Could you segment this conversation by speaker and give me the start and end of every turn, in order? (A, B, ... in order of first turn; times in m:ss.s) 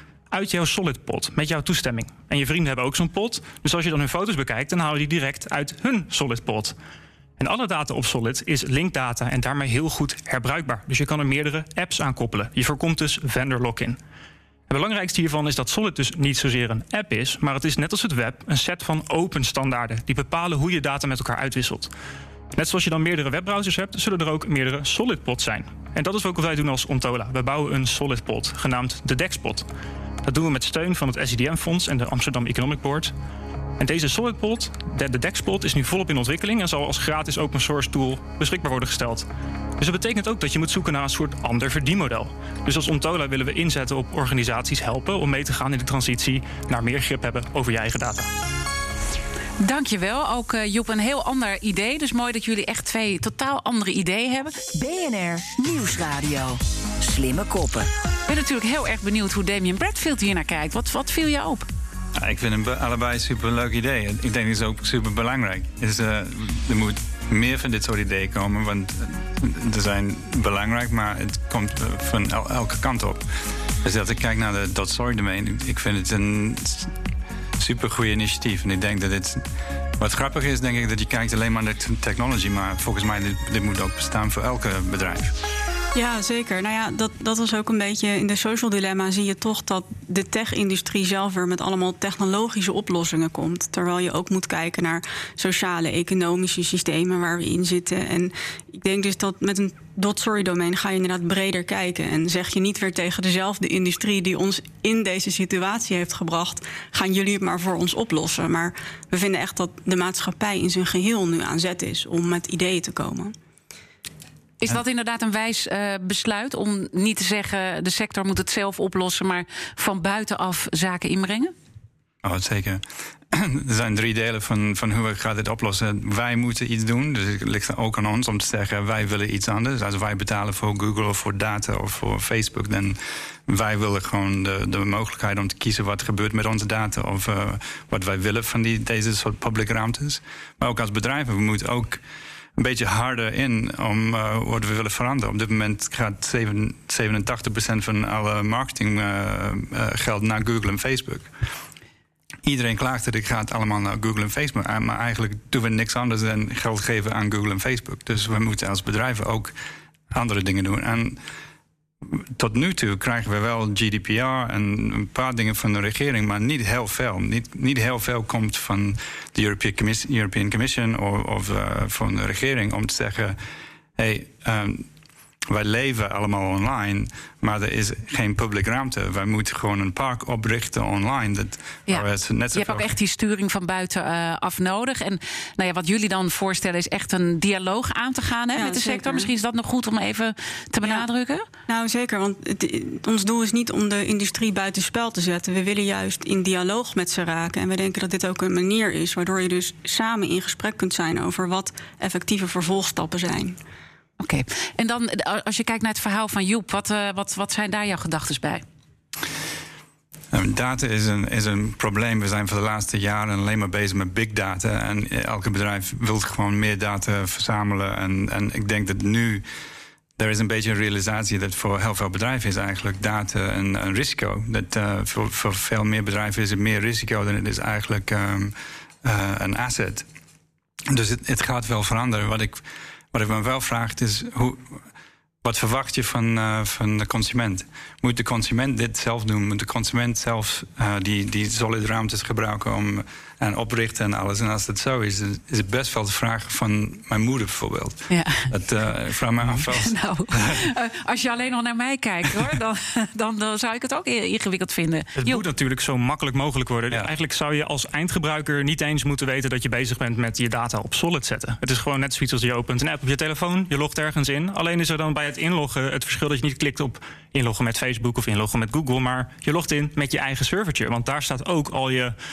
0:00.3-0:06.8 A
0:07.4-0:14.0 A
0:14.7-0:21.9 A
0:22.5-0:29.7 A
0:30.2-0:33.1 A
0:33.8-0:39.3 A
0:39.8-0:48.3 A
0:49.6-0:54.5 B
0:54.7-0:57.9 C
0:58.3-1:01.7 B
1:02.2-1:13.3 D
1:13.8-1:16.9 D
1:17.6-1:19.4 D
1:20.0-1:25.3 D
1:25.9-1:53.3 E
1:54.6-2:01.5 B
2:02.2-2:22.0 D
2:22.6-2:31.3 D
2:32.4-2:39.5 D
2:40.1-2:41.2 D
2:42.0-2:53.4 D
2:54.0-2:54.9 D
2:55.5-3:02.9 D
3:01.9-3:11.5 B
3:08.5-3:09.3 E
3:11.7-3:23.6 E
3:24.2-3:28.6 B
3:30.3-3:39.4 D
3:40.2-3:50.1 D
3:50.9-3:54.8 D
3:55.4-4:10.7 D
4:08.1-4:08.5 B
4:09.7-4:15.4 B
4:15.2-4:32.2 A